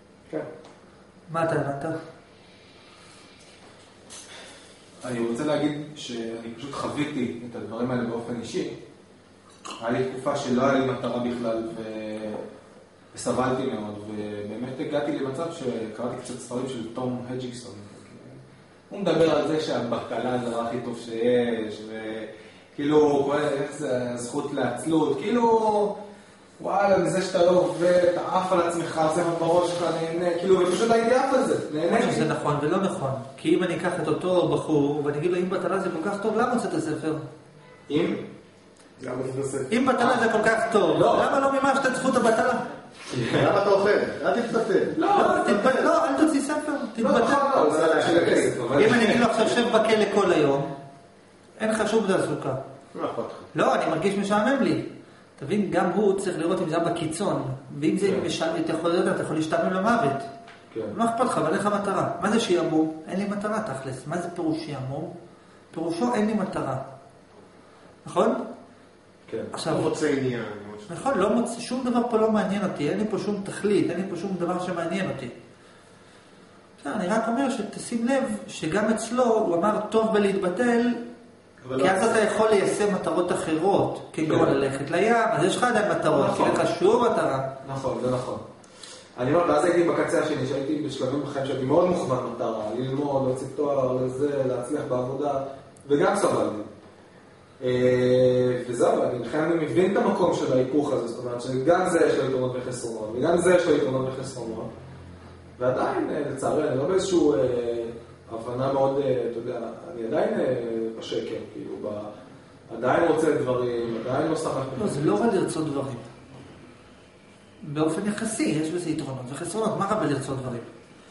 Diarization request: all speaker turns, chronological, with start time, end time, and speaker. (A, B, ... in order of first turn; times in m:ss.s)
0:01.3-0:01.9 A
0:05.0-0:08.8 B
0:09.8-0:12.4 B
0:13.1-0:18.4 B
0:18.9-0:25.9 B
0:26.6-0:32.3 B
0:31.8-0:37.2 A
0:37.9-0:38.2 B
0:39.0-0:39.7 C
0:39.7-0:42.7 A
0:40.0-0:40.2 B
0:40.9-0:41.4 B
0:43.0-0:43.6 B
0:43.3-0:45.9 C
0:44.9-0:45.6 B
0:45.1-0:47.5 A
0:47.0-0:49.6 B
0:47.5-0:48.7 C
0:48.7-0:50.7 A
0:51.6-0:52.6 A
0:52.9-0:53.5 C
0:53.5-1:00.3 A
0:58.0-0:58.3 B
1:00.9-1:05.1 A
1:05.7-1:06.8 A
1:08.0-1:08.4 A
1:09.3-1:09.6 B
1:09.5-1:10.0 A
1:09.7-1:10.9 C
1:10.9-1:15.3 A
1:16.8-1:21.0 A
1:21.6-1:22.0 B
1:21.8-1:27.5 A
1:24.2-1:24.6 B
1:26.1-1:26.7 B
1:27.6-1:28.4 B
1:29.2-1:36.7 B
1:37.6-1:44.7 B
1:45.6-1:52.1 B
1:52.7-1:55.2 B
1:54.8-1:56.1 A
1:57.6-2:00.7 A